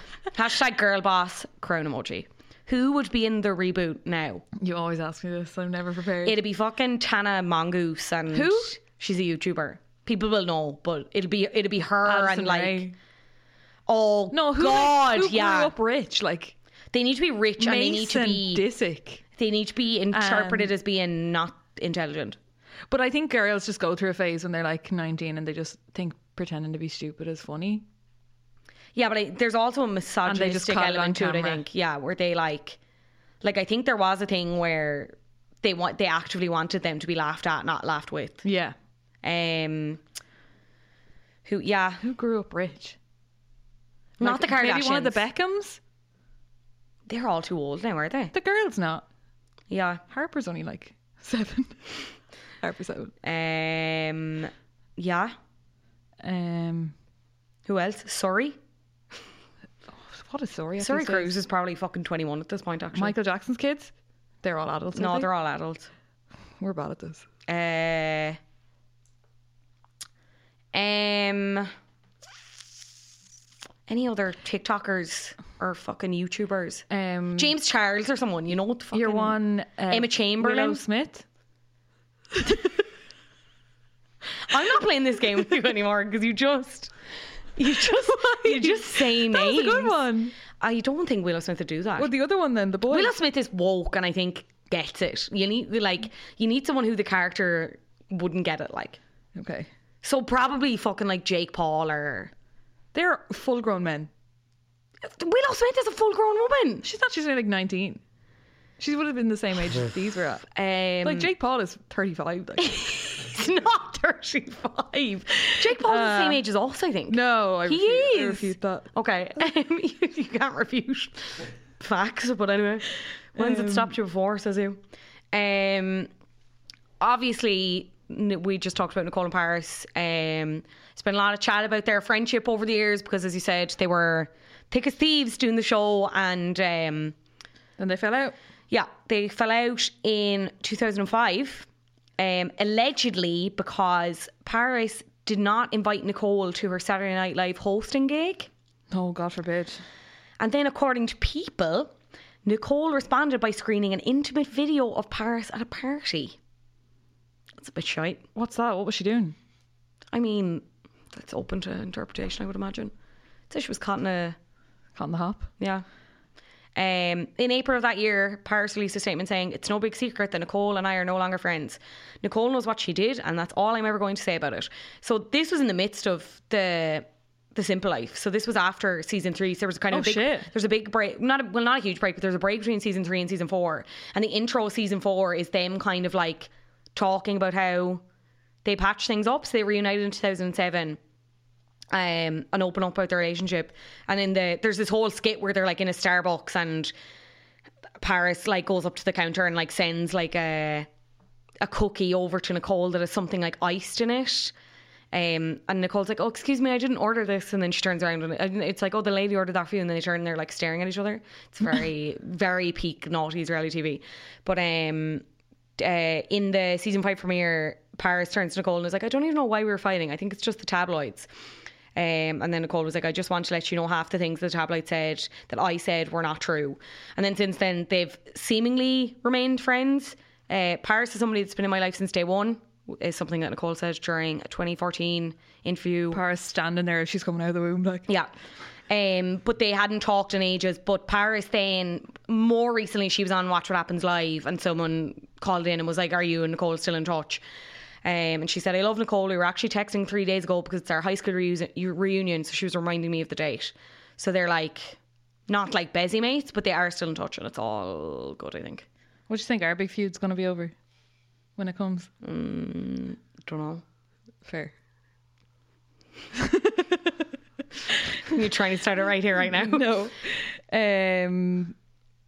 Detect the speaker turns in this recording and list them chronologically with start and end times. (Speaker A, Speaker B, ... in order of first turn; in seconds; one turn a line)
Speaker A: 0.3-4.4
Speaker B: 4.6-6.4
Speaker A: 6.2-12.9
Speaker B: 8.3-8.7
Speaker B: 12.1-12.9
Speaker A: 13.9-15.7
Speaker B: 14.3-16.5
Speaker A: 16.9-18.6
Speaker B: 17.6-19.2
Speaker A: 19.4-22.4
Speaker B: 20.1-20.7
Speaker B: 22.9-27.9
Speaker A: 28.9-32.8
Speaker B: 30.3-31.6
Speaker A: 33.4-38.4
Speaker B: 38.4-38.8
Speaker A: 39.2-40.0
Speaker A: 41.5-42.0
Speaker B: 42.0-43.0
Speaker A: 44.2-45.2
Speaker B: 44.2-45.8
Speaker A: 47.1-48.3
Speaker B: 48.3-49.1
Speaker A: 49.7-50.0
Speaker B: 50.1-52.0
Speaker B: 52.6-53.1
Speaker A: 53.2-55.3
Speaker B: 56.2-56.9
Speaker A: 57.7-58.6
Speaker B: 59.9-61.4
Speaker A: 60.8-63.1
Speaker B: 63.0-63.9
Speaker B: 64.4-65.3
Speaker A: 65.0-65.9
Speaker B: 66.6-67.2
Speaker A: 67.5-68.4
Speaker A: 70.7-71.7
Speaker A: 73.9-76.8
Speaker B: 76.9-77.5
Speaker A: 77.4-80.8
Speaker B: 78.9-81.2
Speaker A: 84.5-86.9
Speaker A: 87.6-90.0
Speaker B: 87.7-90.3
Speaker A: 90.6-92.1
Speaker B: 92.0-93.1
Speaker A: 92.9-99.0
Speaker B: 99.4-99.7
Speaker A: 100.0-102.3
Speaker B: 102.9-104.1
Speaker A: 105.0-106.8
Speaker B: 106.8-108.0
Speaker B: 108.8-110.4
Speaker A: 110.5-111.3
Speaker B: 111.0-112.8
Speaker A: 112.6-124.8
Speaker B: 115.5-116.4
Speaker B: 117.1-118.9
Speaker B: 123.4-123.9
Speaker A: 125.3-126.1
Speaker A: 127.0-137.2
Speaker B: 137.8-138.3
Speaker A: 138.7-141.7
Speaker A: 142.2-148.5
Speaker B: 148.9-149.8
Speaker A: 150.4-151.9
Speaker A: 152.4-156.4
Speaker A: 157.6-158.2
Speaker B: 158.3-159.3
Speaker A: 160.1-162.9
Speaker A: 163.5-164.4
Speaker B: 165.0-165.5
Speaker A: 165.6-165.8
Speaker A: 166.8-188.0
Speaker B: 179.9-180.5
Speaker A: 188.7-191.0
Speaker A: 191.9-196.9
Speaker A: 198.0-200.9
Speaker A: 201.6-204.5
Speaker A: 205.1-215.2
Speaker A: 215.8-221.3
Speaker A: 221.9-236.2
Speaker B: 236.1-238.1
Speaker A: 238.9-247.4
Speaker A: 248.0-255.0
Speaker A: 255.5-258.9
Speaker B: 259.3-260.7
Speaker B: 261.6-262.1
Speaker A: 262.2-263.8
Speaker B: 264.4-264.7
Speaker B: 266.4-267.1
Speaker A: 268.3-269.9
Speaker B: 269.5-271.8